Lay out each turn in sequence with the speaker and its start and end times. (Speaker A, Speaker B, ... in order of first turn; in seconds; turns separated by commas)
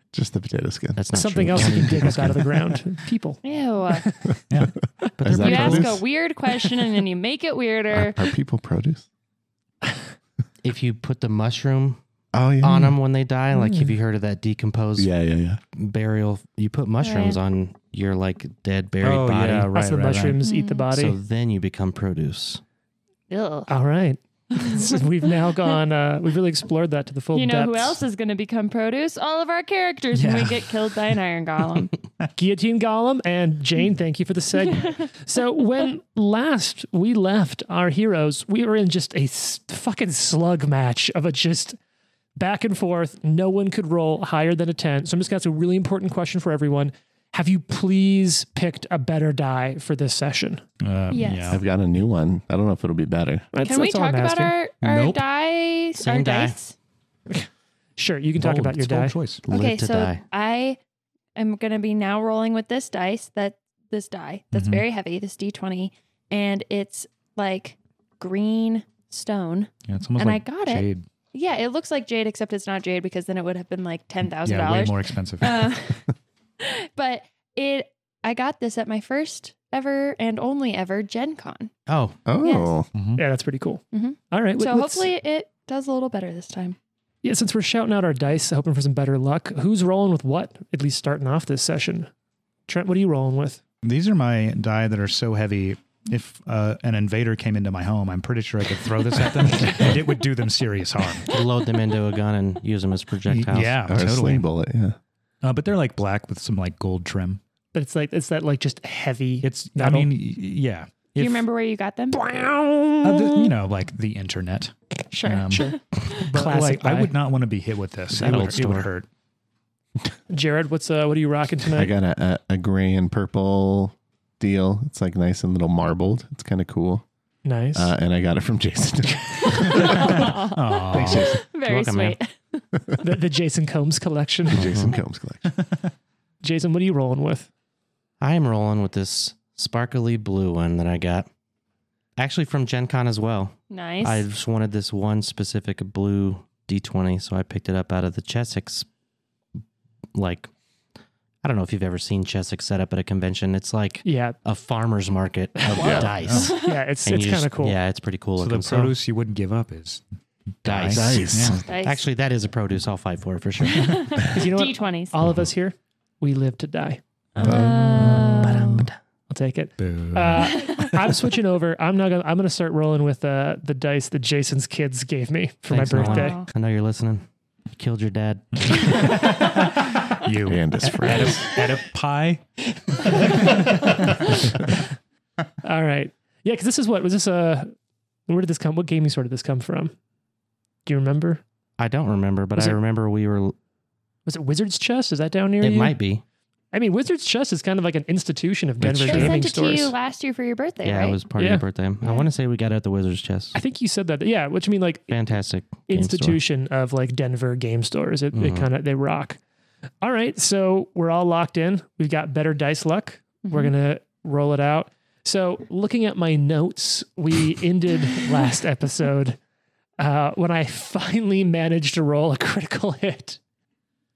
Speaker A: 0.1-2.8, Speaker B: 1.0-2.4, Speaker C: 1.1-4.3, Speaker D: 3.4-4.1, Speaker A: 4.6-6.0, Speaker B: 5.2-5.9, Speaker D: 5.3-8.3, Speaker A: 7.9-9.1, Speaker B: 10.6-12.0, Speaker A: 12.3-13.0, Speaker B: 12.6-15.1, Speaker C: 13.5-13.9, Speaker A: 15.0-15.6, Speaker B: 15.7-19.7, Speaker D: 17.0-17.4, Speaker E: 19.0-20.4, Speaker C: 19.7-21.2, Speaker D: 20.4-20.9, Speaker B: 20.9-22.6, Speaker D: 23.3-23.7, Speaker C: 23.7-28.0, Speaker D: 24.6-24.9, Speaker D: 27.3-31.9, Speaker E: 30.1-31.1, Speaker C: 32.4-41.8, Speaker D: 34.7-35.0, Speaker C: 42.3-50.6, Speaker E: 50.8-51.6, Speaker D: 51.1-51.6, Speaker A: 51.5-53.5, Speaker C: 53.5-54.6, Speaker D: 53.6-56.7, Speaker E: 54.8-55.2, Speaker B: 56.0-56.5, Speaker C: 57.3-59.1, Speaker E: 58.4-59.5, Speaker B: 59.5-60.2, Speaker D: 59.5-60.8, Speaker D: 61.4-81.7, Speaker E: 64.5-64.8, Speaker E: 69.9-71.1, Speaker E: 74.2-75.7, Speaker B: 81.9-82.2, Speaker A: 82.2-82.9, Speaker D: 82.4-82.8, Speaker E: 82.9-83.2, Speaker C: 83.2-85.1, Speaker D: 83.9-86.8, Speaker C: 87.2-92.1, Speaker C: 92.7-93.6, Speaker E: 93.8-101.3, Speaker B: 101.3-103.8, Speaker E: 103.3-104.4, Speaker A: 103.8-105.0, Speaker E: 105.4-107.4, Speaker C: 107.7-110.1, Speaker E: 109.4-111.5, Speaker D: 111.2-112.2, Speaker C: 112.1-113.5, Speaker E: 113.0-119.1, Speaker D: 115.1-116.2, Speaker C: 115.5-117.1, Speaker B: 118.1-118.9, Speaker C: 120.3-121.9, Speaker A: 121.7-127.0, Speaker C: 127.4-127.9, Speaker A: 127.7-130.3, Speaker D: 129.4-132.6, Speaker E: 129.7-131.4, Speaker A: 130.9-131.4, Speaker B: 130.9-132.2, Speaker A: 132.7-133.0, Speaker C: 133.0-134.7, Speaker A: 134.5-135.5, Speaker B: 134.5-134.9, Speaker C: 136.4-137.5, Speaker B: 138.2-141.3, Speaker B: 142.2-148.8, Speaker D: 143.7-144.2, Speaker B: 150.1-150.5, Speaker B: 151.4-159.0, Speaker C: 154.0-154.3, Speaker A: 155.8-156.1, Speaker E: 155.9-156.5, Speaker D: 156.3-156.8, Speaker C: 156.5-157.8, Speaker E: 158.4-160.0, Speaker E: 160.6-161.6, Speaker B: 160.6-164.0, Speaker A: 160.9-161.6, Speaker D: 161.6-162.0, Speaker D: 163.7-165.2, Speaker C: 164.3-167.0, Speaker D: 167.4-168.9, Speaker A: 167.4-168.9, Speaker C: 168.1-168.4, Speaker C: 169.3-176.4, Speaker E: 169.8-170.6, Speaker D: 170.4-171.1, Speaker B: 175.7-179.1, Speaker D: 175.9-176.5, Speaker E: 178.7-182.4, Speaker A: 180.4-181.7, Speaker E: 183.1-184.6, Speaker C: 185.6-187.7, Speaker C: 188.3-189.9, Speaker C: 190.8-191.4, Speaker B: 191.8-193.5, Speaker C: 194.2-196.0, Speaker B: 195.6-196.2, Speaker C: 196.7-199.9, Speaker B: 198.8-199.4, Speaker D: 199.0-201.2, Speaker B: 200.8-203.5, Speaker C: 201.4-201.6, Speaker C: 203.5-205.2, Speaker B: 205.1-206.4, Speaker C: 205.9-209.4, Speaker B: 208.3-208.7, Speaker C: 210.0-219.4, Speaker D: 213.4-213.7, Speaker C: 220.0-223.4